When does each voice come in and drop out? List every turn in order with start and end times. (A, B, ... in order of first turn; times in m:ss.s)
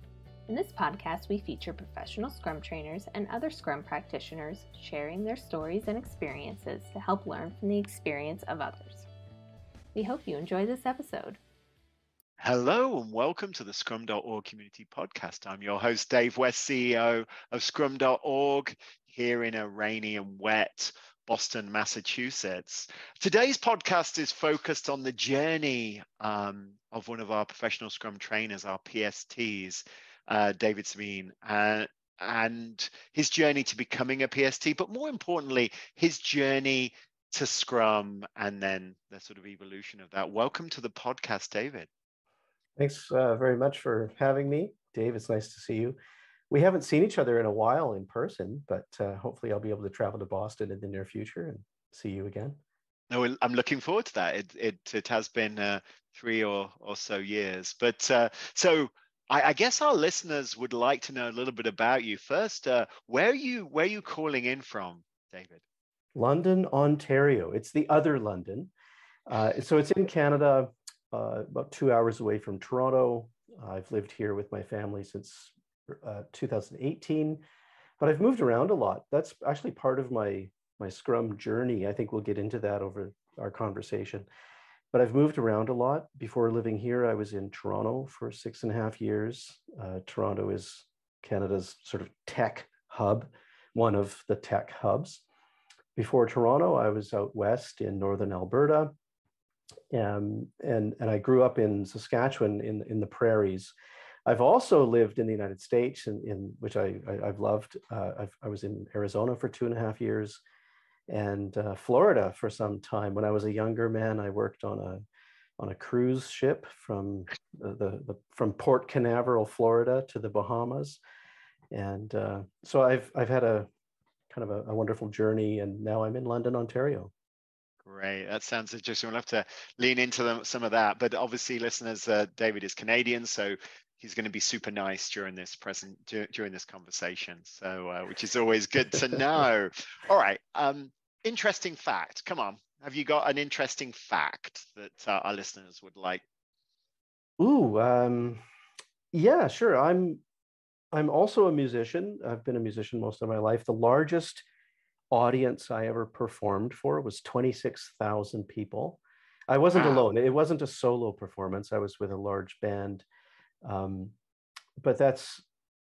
0:00.5-0:09.1 A
0:09.9-0:11.4 A
0:12.4-0:41.9 B
0:42.8-0:46.0 C
0:46.5-0:52.6 C
0:53.1-1:05.6 B
1:06.1-1:08.7 C
1:09.3-1:17.4 C
1:18.0-1:24.3 C
1:24.9-1:35.2 C
1:36.0-1:38.9 C
1:39.9-1:43.7 C
1:44.2-1:50.4 C
1:51.1-1:55.0 C
1:55.6-2:01.0 C
2:01.7-2:03.7 C
2:04.3-2:07.1 C
2:07.8-2:26.2 B
2:27.4-2:28.4 C
2:29.1-2:30.2 C
2:30.9-2:34.4 C
2:35.1-2:43.0 C
2:39.7-2:40.0 B
2:43.6-2:44.1 C
2:44.8-2:45.4 C